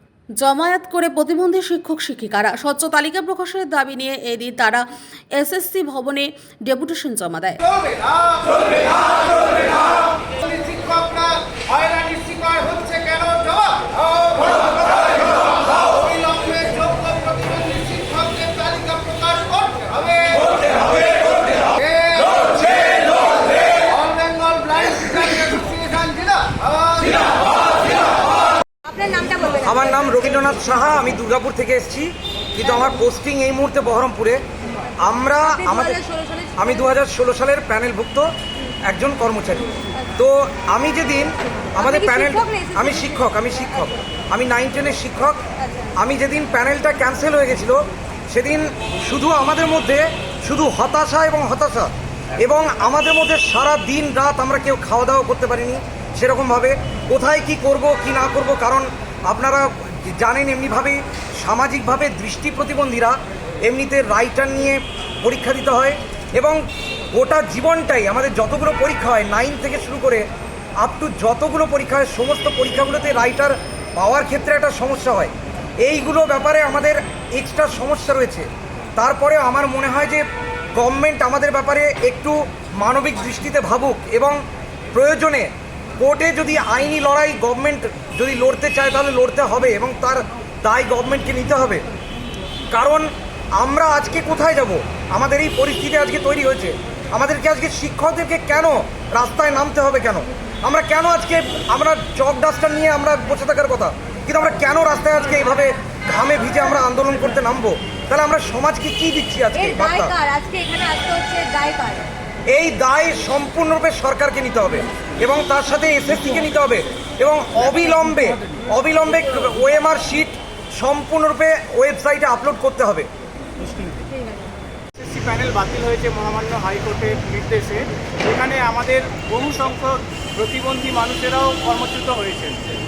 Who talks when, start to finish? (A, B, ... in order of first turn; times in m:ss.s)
0:00.4-0:07.6 A
0:07.7-0:27.5 B
0:28.8-0:30.0 C
0:29.6-0:34.4 D
0:35.0-0:36.0 D
0:35.4-0:36.9 C
0:36.6-0:38.3 D
0:38.9-0:45.4 D
0:41.8-0:43.2 C
0:45.6-0:45.9 C
0:46.0-1:06.6 D
1:07.2-1:10.3 D
1:10.8-1:20.2 D
1:20.8-1:24.4 D
1:24.9-1:25.5 D
1:26.0-1:31.8 D
1:32.7-1:50.1 D
1:49.6-1:52.1 C
1:52.5-2:03.1 D
2:05.0-2:12.6 E